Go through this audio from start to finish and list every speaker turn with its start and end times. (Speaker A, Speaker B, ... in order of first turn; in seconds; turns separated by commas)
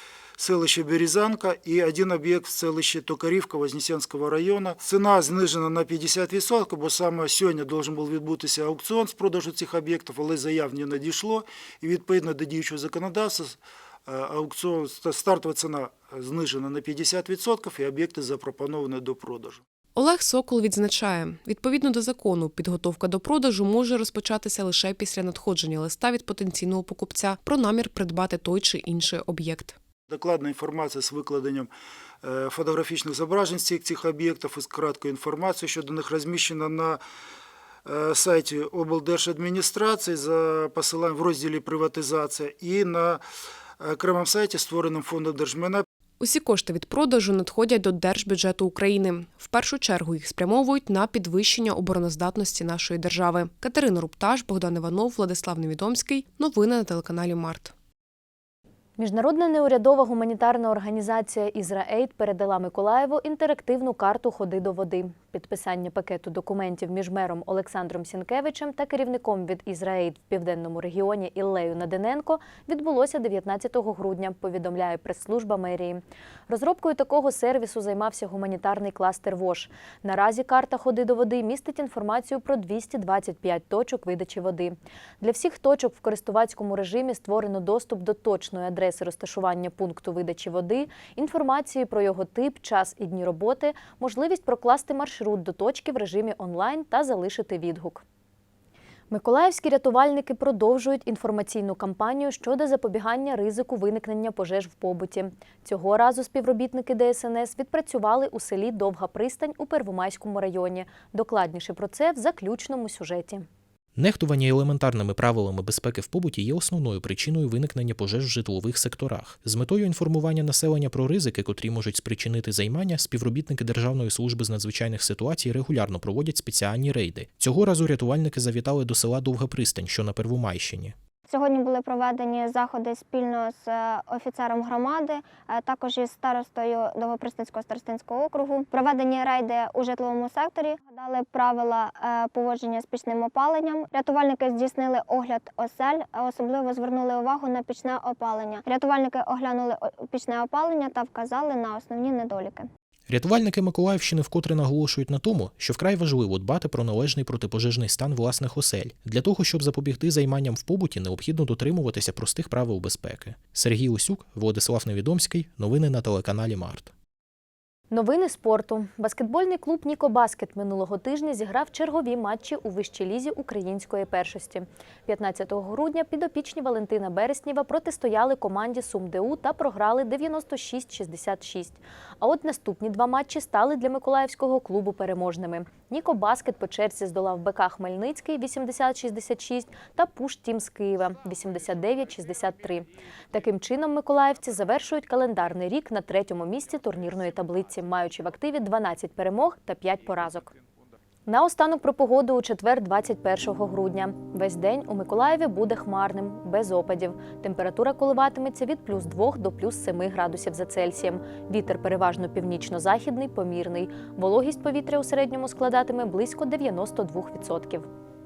Speaker A: 0.4-19.6, Speaker B: 20.0-29.8, Speaker A: 30.1-31.7, Speaker A: 32.2-37.0, Speaker A: 37.9-43.2, Speaker A: 43.8-45.9, Speaker B: 46.2-57.7, Speaker C: 59.0-98.0, Speaker C: 99.1-113.5, Speaker D: 114.0-130.9, Speaker E: 131.3-152.7, Speaker D: 153.1-166.9, Speaker C: 167.9-200.5, Speaker C: 201.3-217.9